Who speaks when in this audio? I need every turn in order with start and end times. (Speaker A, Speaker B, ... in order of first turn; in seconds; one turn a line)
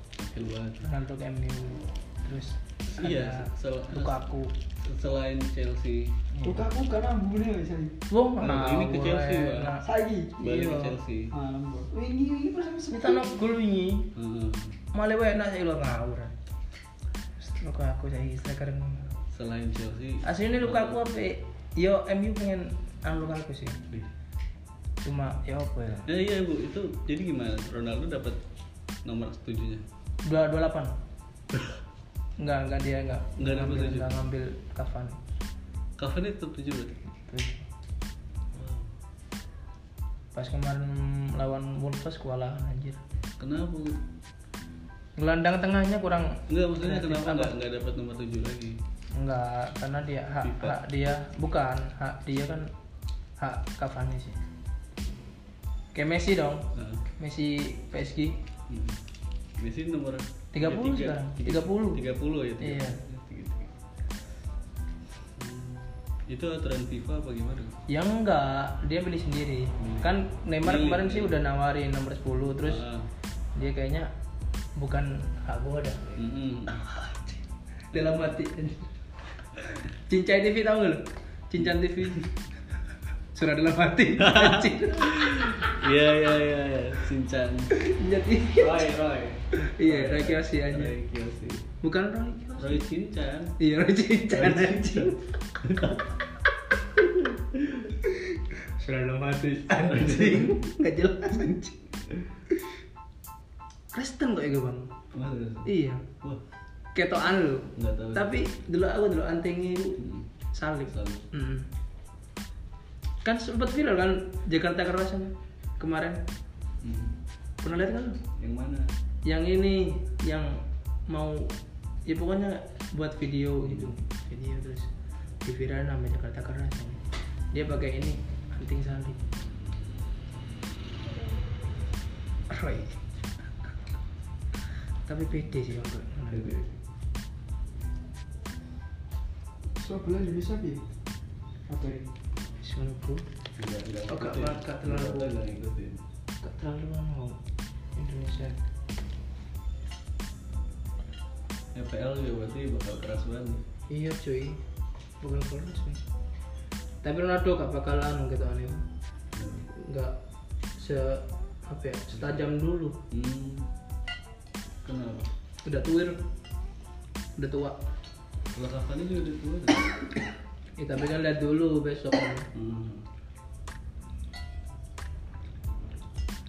Speaker A: 0.2-0.8
Speaker B: 0.8-4.5
Speaker A: 2.9-4.2
Speaker A: 4.8-6.2
Speaker C: 6.4-8.0
Speaker B: 8.1-9.8
Speaker A: 8.4-9.8
Speaker C: 9.8-10.4
Speaker B: 10.4-11.0
Speaker A: 10.4-11.3
Speaker C: 11.3-13.3
Speaker B: 12.9-14.1
Speaker A: 14.1-14.8
Speaker B: 14.9-16.3
Speaker B: 17.4-19.1
Speaker A: 19.3-20.9
Speaker B: 20.2-23.8
Speaker B: 25.0-26.1
Speaker A: 26.1-28.4
Speaker A: 29.0-29.9
Speaker B: 30.2-30.9
Speaker B: 32.4-35.2
Speaker A: 33.4-34.1
Speaker A: 36.0-37.0
Speaker B: 37.2-37.7
Speaker A: 38.5-38.9
Speaker B: 40.3-43.0
Speaker A: 43.4-44.0
Speaker B: 45.2-47.5
Speaker A: 46.5-48.8
Speaker B: 49.1-52.7
Speaker A: 50.4-50.8
Speaker B: 53.4-54.4
Speaker B: 55.9-56.7
Speaker A: 56.7-57.0
Speaker B: 57.2-58.4
Speaker A: 58.7-59.0
Speaker A: 59.6-63.7
Speaker B: 60.5-62.0
Speaker B: 62.6-63.0
Speaker A: 65.4-67.8
Speaker B: 67.9-72.8
Speaker A: 69.8-70.1
Speaker A: 70.6-71.4
Speaker A: 72.6-73.1
Speaker B: 73.5-74.1
Speaker B: 74.8-76.2
Speaker A: 76.2-76.8
Speaker B: 77.9-78.9
Speaker B: 79.7-82.3
Speaker B: 83.3-85.1
Speaker A: 84.2-87.7
Speaker B: 87.7-88.9
Speaker A: 88.6-91.7
Speaker B: 89.5-90.9
Speaker B: 91.8-92.8
Speaker A: 92.6-93.5
Speaker B: 93.6-95.2
Speaker A: 94.3-96.0
Speaker A: 97.2-97.9
Speaker B: 98.5-101.8
Speaker A: 99.7-100.7
Speaker B: 103.9-104.9
Speaker A: 105.1-106.4
Speaker B: 105.6-106.0
Speaker B: 106.9-110.0
Speaker A: 107.8-108.3
Speaker A: 110.0-110.3
Speaker B: 110.5-111.7
Speaker A: 110.9-111.2
Speaker B: 113.2-116.2
Speaker A: 116.8-117.1
Speaker B: 117.6-118.2
Speaker A: 118.3-118.9
Speaker B: 119.2-121.5
Speaker B: 122.0-124.9
Speaker B: 125.4-129.2
Speaker B: 132.5-133.0
Speaker B: 135.1-136.6
Speaker A: 136.3-136.8
Speaker C: 139.8-140.9
Speaker C: 141.7-142.1
Speaker B: 142.6-143.2
Speaker A: 143.6-146.0
Speaker B: 144.1-145.3
Speaker B: 146.4-147.4
Speaker B: 147.9-148.6
Speaker A: 151.7-153.6
Speaker B: 153.9-154.6
Speaker B: 155.2-156.0
Speaker B: 157.0-158.8
Speaker A: 159.3-159.7
Speaker B: 159.7-160.2
Speaker B: 160.8-163.0
Speaker A: 162.1-162.5
Speaker A: 163.1-163.7
Speaker A: 164.8-165.3
Speaker B: 165.6-166.2
Speaker B: 167.4-167.8
Speaker A: 168.5-170.0
Speaker B: 170.8-172.5
Speaker A: 172.5-173.1